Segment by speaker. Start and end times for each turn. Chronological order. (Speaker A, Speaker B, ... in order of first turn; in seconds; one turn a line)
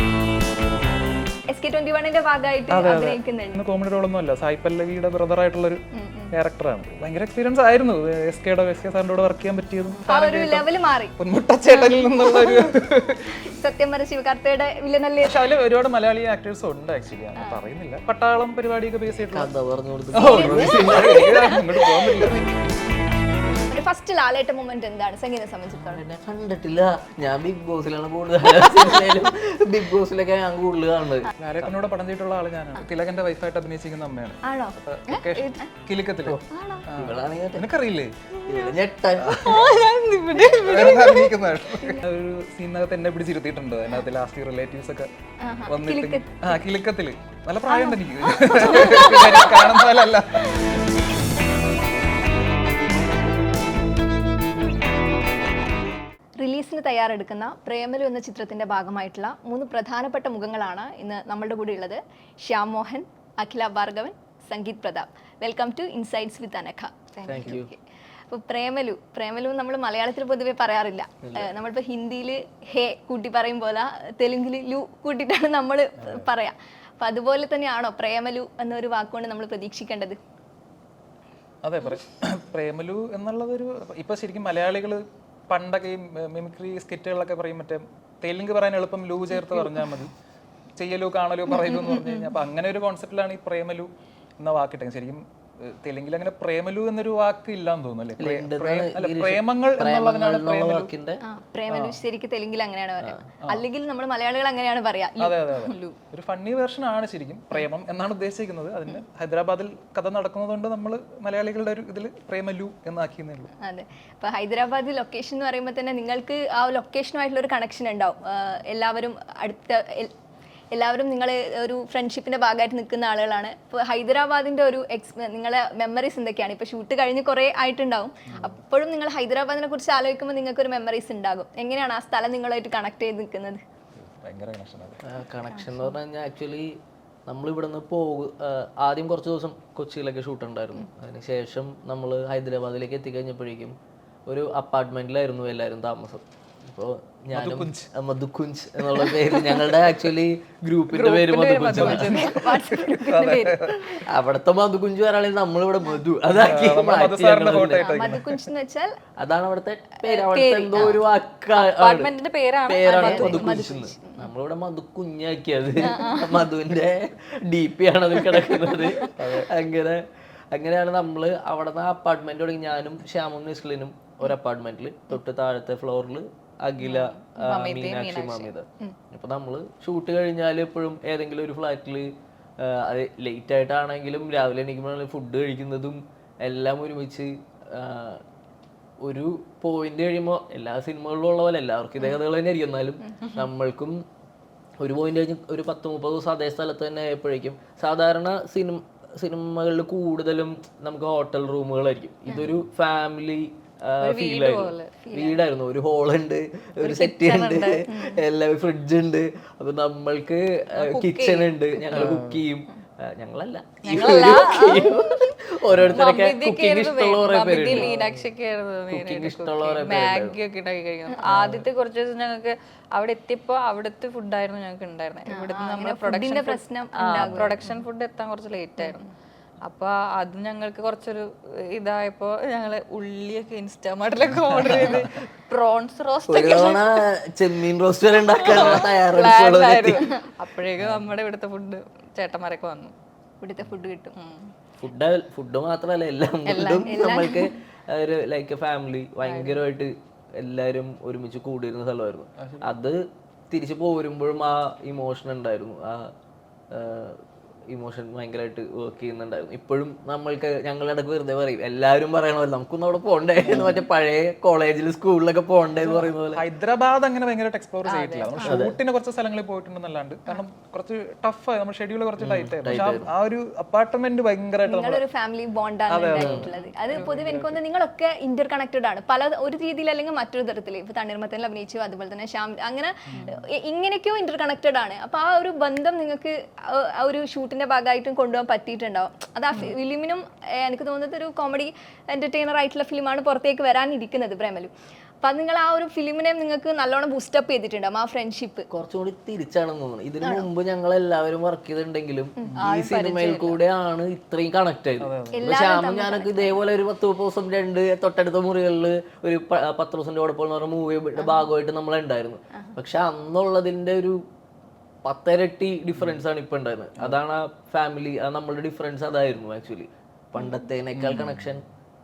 Speaker A: 1.5-3.6
Speaker B: 2.7-13.5
Speaker A: 5.9-6.3
Speaker A: 10.0-11.1
Speaker A: 11.8-12.8
Speaker A: 13.5-15.4
Speaker B: 15.2-19.5
Speaker C: 19.3-21.3
Speaker B: 20.1-22.6
Speaker A: 20.1-22.3
Speaker A: 23.7-26.0
Speaker C: 25.7-31.7
Speaker B: 31.4-38.1
Speaker A: 34.4-35.7
Speaker D: 35.3-35.6
Speaker A: 36.5-36.9
Speaker C: 37.0-37.7
Speaker D: 38.3-38.8
Speaker C: 38.5-39.4
Speaker B: 39.2-39.6
Speaker D: 39.4-41.4
Speaker B: 40.4-45.1
Speaker A: 45.4-46.5
Speaker B: 45.7-50.6
Speaker A: 47.7-49.9
Speaker A: 56.4-80.2
Speaker C: 67.2-67.7
Speaker C: 71.2-71.5
Speaker B: 76.0-76.3
Speaker B: 81.6-90.1
Speaker B: 90.8-100.9
Speaker A: 91.6-92.3
Speaker C: 98.2-101.2
Speaker A: 101.2-106.0
Speaker B: 101.7-102.0
Speaker C: 103.0-103.3
Speaker B: 105.2-113.5
Speaker A: 113.6-120.1
Speaker A: 120.7-133.6
Speaker B: 128.3-128.6
Speaker B: 134.0-135.0
Speaker C: 135.0-152.2
Speaker B: 147.3-147.9
Speaker D: 150.9-152.0
Speaker B: 151.7-154.1
Speaker A: 151.8-153.7
Speaker C: 154.1-158.0
Speaker B: 156.3-158.5
Speaker A: 157.7-158.9
Speaker C: 159.2-162.1
Speaker D: 160.1-161.0
Speaker A: 160.2-161.0
Speaker D: 161.5-163.7
Speaker C: 162.7-188.2
Speaker A: 162.9-164.3
Speaker A: 165.8-166.4
Speaker B: 169.2-169.5
Speaker D: 176.8-178.5
Speaker C: 189.0-194.0
Speaker C: 194.8-217.9
Speaker B: 202.3-202.6
Speaker D: 204.0-204.9
Speaker A: 205.0-205.4
Speaker D: 206.8-207.9
Speaker A: 207.8-208.2
Speaker D: 210.8-212.1
Speaker B: 211.9-212.4
Speaker D: 213.8-215.1
Speaker A: 213.9-215.0
Speaker B: 215.7-216.0
Speaker D: 215.9-229.1
Speaker B: 217.7-218.2
Speaker C: 218.9-220.4
Speaker B: 221.2-221.7
Speaker A: 225.3-227.8
Speaker B: 227.1-227.7
Speaker A: 228.8-229.1
Speaker D: 229.6-237.0
Speaker B: 234.3-235.1
Speaker C: 236.3-240.1
Speaker D: 238.3-242.9
Speaker B: 240.8-241.1
Speaker A: 243.4-244.2
Speaker D: 244.2-244.5
Speaker C: 244.8-256.1
Speaker D: 246.5-247.3
Speaker A: 246.5-247.5
Speaker D: 249.2-249.7
Speaker B: 252.4-252.7
Speaker C: 256.7-266.4
Speaker B: 263.5-263.8
Speaker B: 265.8-275.0
Speaker D: 267.9-268.3
Speaker C: 268.4-268.8
Speaker C: 272.2-273.1
Speaker A: 274.7-298.7
Speaker B: 275.9-277.6
Speaker C: 276.2-276.5
Speaker B: 283.1-283.4
Speaker C: 298.7-314.2
Speaker A: 300.2-300.5
Speaker A: 302.4-303.6
Speaker B: 305.0-305.6
Speaker A: 305.4-306.6
Speaker A: 311.2-311.5
Speaker C: 315.1-321.6
Speaker A: 320.4-320.6
Speaker B: 320.9-321.4